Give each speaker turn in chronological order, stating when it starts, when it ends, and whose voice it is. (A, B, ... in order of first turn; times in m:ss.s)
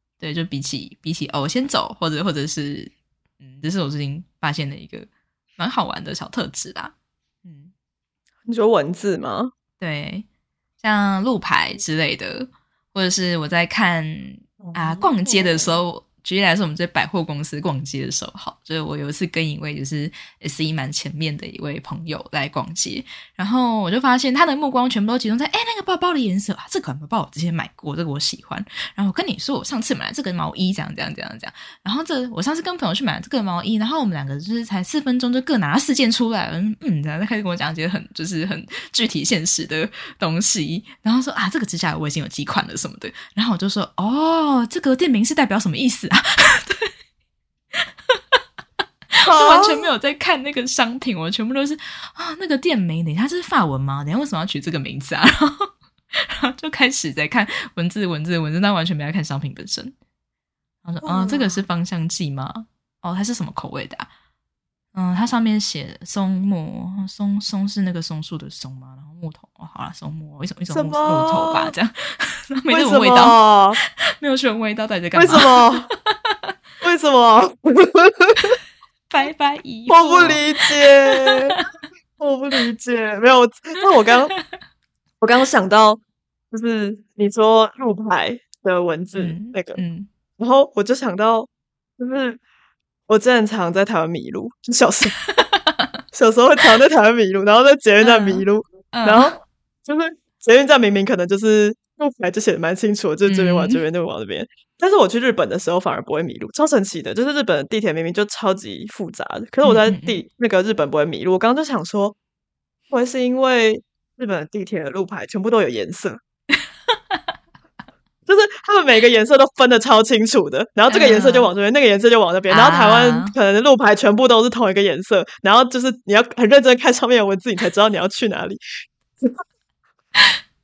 0:00.2-0:07.7 A
0:08.5-0:09.5 B
0:09.8-0:10.2 A
0:10.8-0:46.9 A
0:14.6-0:15.8 B
0:47.7-0:48.4 A
0:49.2-0:59.9 A
0:49.3-0:49.9 B
1:00.8-1:04.1 A
1:01.0-1:01.6 B
1:04.9-1:16.5 A
1:10.7-1:11.7 B
1:12.7-1:13.8 B
1:15.1-1:15.9 B
1:16.8-1:18.6 B
1:19.1-1:21.6 A
1:19.9-1:21.6 B
1:22.2-1:24.3 B
1:25.2-1:26.0 B
1:26.5-1:29.8 B
1:29.2-1:30.1 A
1:30.4-1:32.4 B
1:33.1-1:35.1 B
1:35.3-1:35.8 A
1:36.1-1:52.2 B
1:38.0-1:39.3 A
1:43.2-1:43.8 A
1:49.6-1:50.2 A
1:52.9-1:56.2 B
1:58.2-2:08.6 B
2:00.9-2:01.5 A
2:02.5-2:03.3 A